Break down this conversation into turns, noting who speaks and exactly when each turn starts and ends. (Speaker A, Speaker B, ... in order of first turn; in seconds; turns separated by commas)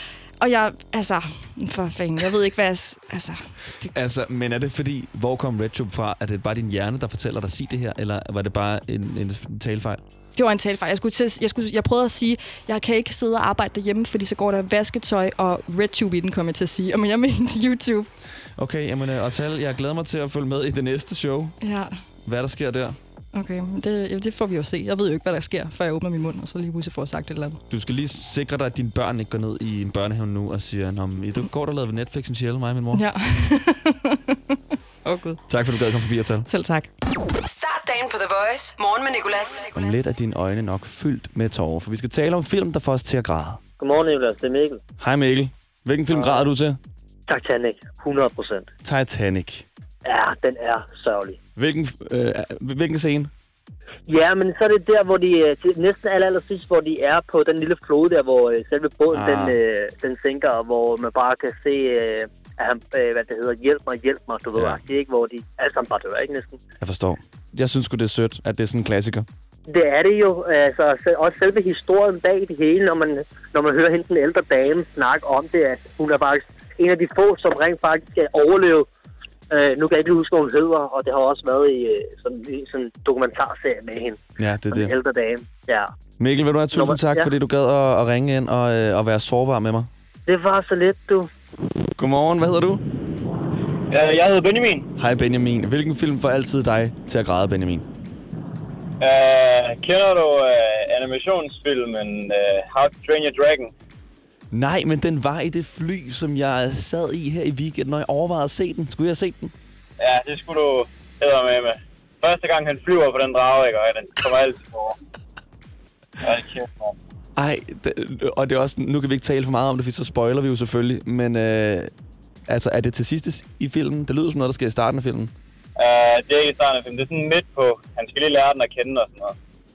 Speaker A: 0.4-3.9, Speaker B: 3.9-10.0, Speaker A: 10.3-18.1, Speaker B: 18.6-21.6, Speaker A: 21.6-21.9, Speaker B: 22.2-23.0, Speaker A: 23.3-27.6, Speaker B: 27.7-33.0, Speaker A: 32.9-35.4, Speaker B: 35.5-36.5, Speaker A: 36.5-36.9, Speaker C: 37.4-40.0, Speaker B: 39.7-43.6, Speaker D: 43.8-44.8, Speaker B: 45.0-46.8, Speaker D: 46.1-46.5, Speaker D: 47.3-48.7, Speaker B: 48.8-49.6, Speaker D: 50.0-51.4, Speaker B: 51.5-53.3, Speaker D: 54.1-66.6, Speaker B: 59.1-59.5, Speaker B: 64.5-64.8, Speaker B: 66.8-69.3, Speaker D: 69.7-78.9, Speaker D: 79.5-85.9, Speaker B: 84.4-84.9, Speaker B: 86.2-89.9, Speaker D: 86.7-87.3, Speaker D: 90.2-91.3, Speaker B: 92.0-92.8, Speaker E: 93.9-94.9, Speaker B: 95.0-97.9, Speaker E: 99.0-103.7, Speaker B: 104.5-109.5, Speaker E: 110.0-115.0, Speaker E: 116.2-117.0, Speaker B: 117.4-121.9, Speaker B: 122.5-125.3, Speaker E: 125.8-129.3